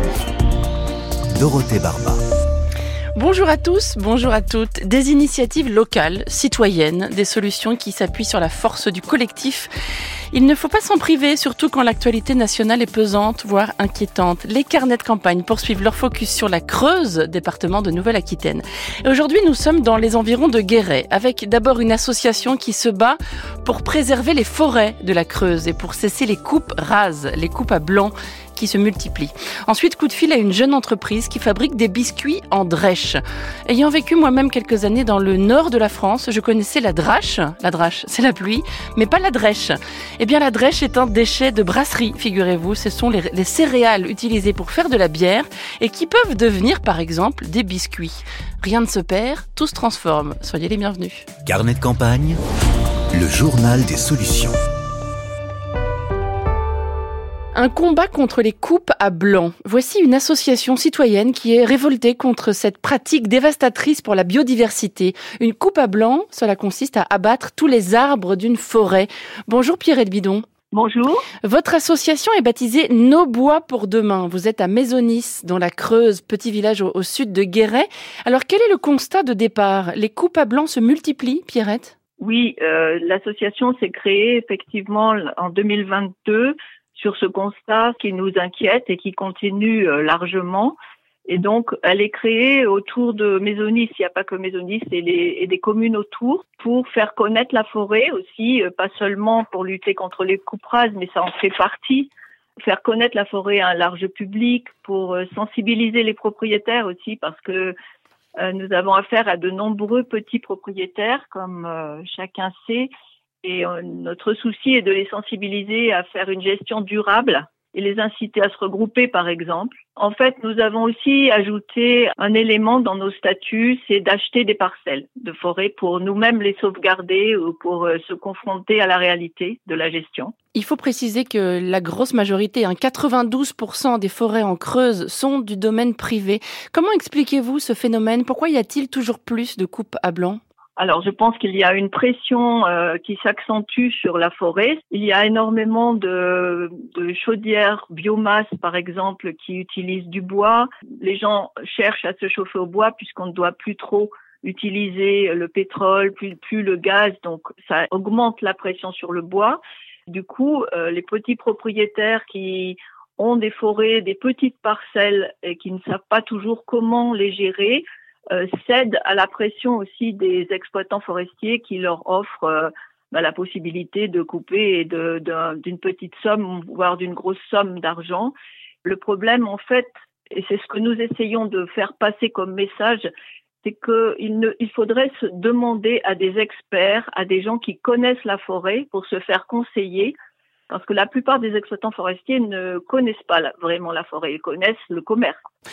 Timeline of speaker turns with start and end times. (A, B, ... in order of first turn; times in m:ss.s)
0:01.3-0:02.2 A
0:03.2-0:09.7 B
0:10.3-0:51.3 B
0:51.4-0:52.4 A
0:53.1-0:54.6 A
0:57.5-1:10.4 B
1:10.7-1:11.2 C
1:11.4-1:21.9 B
1:22.2-1:30.8 C
1:31.3-1:47.7 C
1:48.4-1:52.9 C
1:53.4-2:10.3 C
2:10.5-2:20.4 B
2:20.8-2:58.3 C
2:58.8-3:03.1 C
3:03.6-3:10.1 C
3:10.7-3:15.4 C